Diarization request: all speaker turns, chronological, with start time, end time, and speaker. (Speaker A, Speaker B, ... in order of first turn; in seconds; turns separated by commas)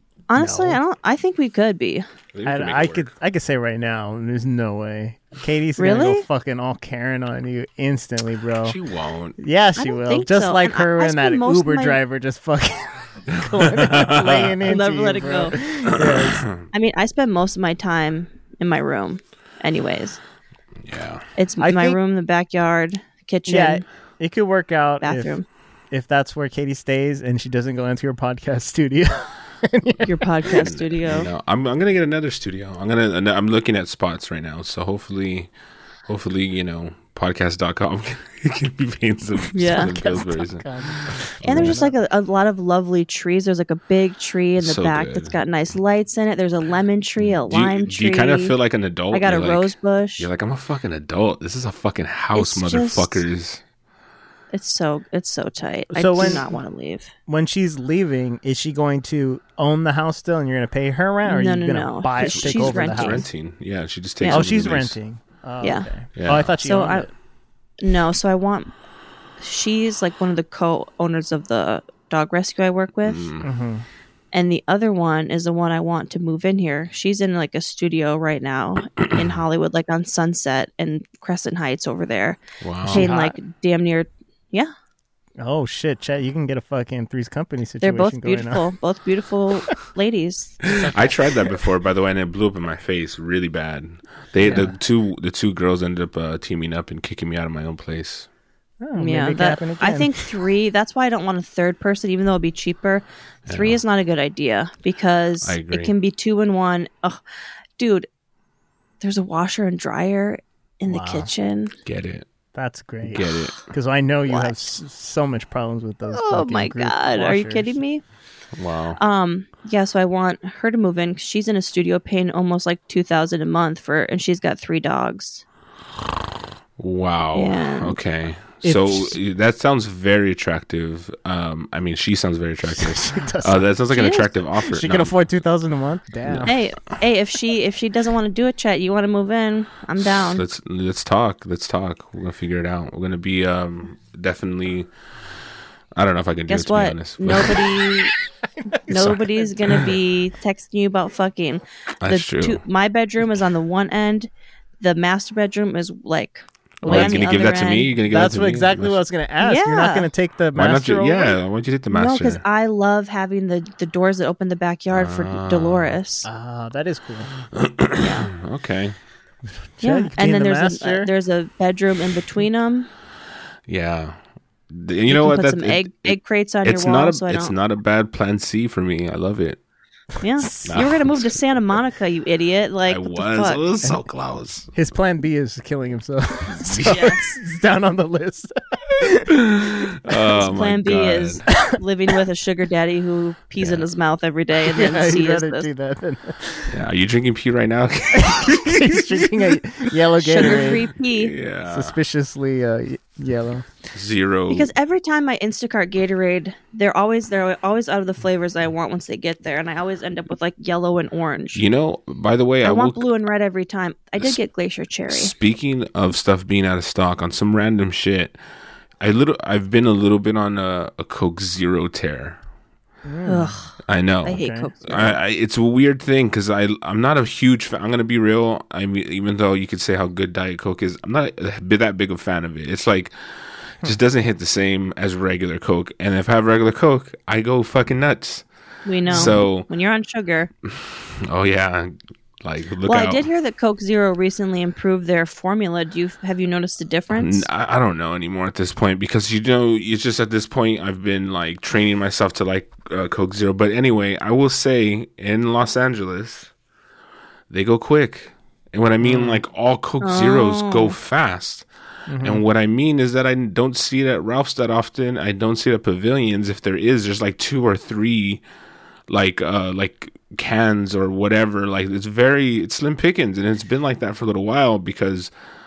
Speaker A: 0.3-2.0, Speaker B: 0.4-0.8, Speaker C: 2.3-3.1, Speaker B: 2.4-8.8, Speaker A: 5.8-6.2, Speaker C: 8.6-9.4, Speaker B: 9.4-16.4, Speaker A: 9.8-12.0, Speaker C: 13.3-14.6, Speaker A: 14.6-15.6, Speaker C: 16.0-16.6, Speaker A: 16.7-20.2, Speaker C: 20.8-21.2, Speaker A: 21.4-23.8, Speaker B: 21.6-22.0, Speaker B: 23.5-25.4, Speaker A: 25.0-25.4, Speaker B: 25.9-30.6, Speaker A: 30.1-31.3, Speaker C: 30.6-35.5, Speaker C: 36.1-41.8, Speaker A: 39.5-39.9, Speaker B: 39.7-42.0, Speaker A: 41.4-48.5, Speaker C: 44.6-45.4, Speaker C: 47.2-53.6, Speaker A: 49.1-50.3, Speaker A: 52.3-53.2, Speaker A: 54.5-57.1, Speaker B: 55.9-56.5, Speaker B: 57.3-63.2, Speaker A: 61.2-63.3, Speaker C: 62.2-65.0, Speaker A: 64.2-64.5, Speaker B: 64.3-67.1, Speaker A: 65.6-65.9, Speaker C: 66.2-66.5, Speaker A: 66.6-67.1, Speaker A: 67.8-68.7, Speaker A: 69.4-73.3, Speaker C: 73.0-73.5, Speaker B: 73.4-73.8, Speaker A: 74.3-84.7, Speaker C: 82.6-83.1, Speaker B: 82.8-83.4, Speaker B: 85.4-88.7, Speaker A: 87.8-90.7, Speaker B: 90.7-91.1, Speaker C: 90.8-98.3, Speaker B: 94.4-94.8, Speaker B: 98.8-100.3, Speaker A: 99.0-107.2, Speaker C: 103.5-103.8, Speaker C: 105.4-105.9, Speaker A: 107.8-108.1, Speaker A: 109.0-111.7, Speaker B: 110.9-111.3, Speaker C: 111.8-112.3, Speaker B: 112.5-117.8, Speaker C: 113.1-113.6, Speaker A: 114.3-114.6, Speaker A: 116.1-118.0, Speaker C: 118.5-119.0, Speaker A: 119.0-125.4, Speaker C: 126.8-135.1, Speaker A: 127.3-128.0, Speaker B: 128.6-129.2, Speaker B: 132.7-133.7, Speaker A: 133.9-134.3, Speaker B: 134.6-136.6, Speaker C: 136.2-136.5, Speaker A: 136.4-140.4, Speaker C: 140.2-144.9, Speaker C: 145.9-147.6, Speaker A: 146.5-148.1, Speaker B: 148.4-149.9, Speaker A: 148.9-154.3, Speaker C: 148.9-149.9, Speaker C: 152.0-152.6, Speaker A: 154.8-157.9, Speaker B: 156.8-157.4, Speaker C: 156.8-159.0, Speaker B: 158.0-161.1, Speaker A: 159.4-160.1, Speaker C: 160.5-162.4, Speaker A: 160.9-161.3, Speaker A: 161.9-166.3, Speaker C: 164.9-166.0, Speaker B: 166.2-167.3, Speaker C: 167.5-168.9, Speaker A: 168.0-168.3, Speaker B: 169.8-171.1, Speaker A: 169.8-172.9, Speaker C: 173.7-174.2, Speaker C: 174.7-179.6, Speaker A: 175.1-177.5, Speaker A: 180.2-183.6, Speaker C: 180.6-181.4, Speaker C: 182.9-184.7, Speaker B: 184.7-189.2, Speaker C: 186.7-187.1, Speaker A: 186.8-187.3, Speaker C: 189.2-191.5, Speaker A: 190.3-195.7, Speaker C: 193.6-193.8, Speaker B: 194.6-196.8, Speaker C: 196.7-199.6, Speaker B: 198.1-200.8, Speaker A: 200.2-201.3, Speaker C: 200.4-202.0, Speaker B: 201.7-203.7, Speaker C: 203.9-204.7, Speaker A: 204.5-211.6, Speaker C: 211.5-213.1, Speaker A: 212.6-215.3, Speaker C: 215.1-218.3, Speaker C: 219.0-222.4, Speaker B: 223.0-223.5, Speaker A: 223.2-225.2, Speaker C: 223.8-238.4, Speaker B: 224.3-224.7, Speaker A: 238.8-240.5, Speaker C: 239.1-239.7, Speaker B: 239.1-239.4, Speaker C: 240.7-243.3, Speaker A: 242.8-247.5, Speaker C: 247.1-256.5, Speaker C: 257.5-261.6, Speaker B: 259.0-259.4, Speaker A: 260.0-260.9, Speaker B: 262.1-262.4, Speaker C: 262.2-268.4, Speaker C: 269.1-275.3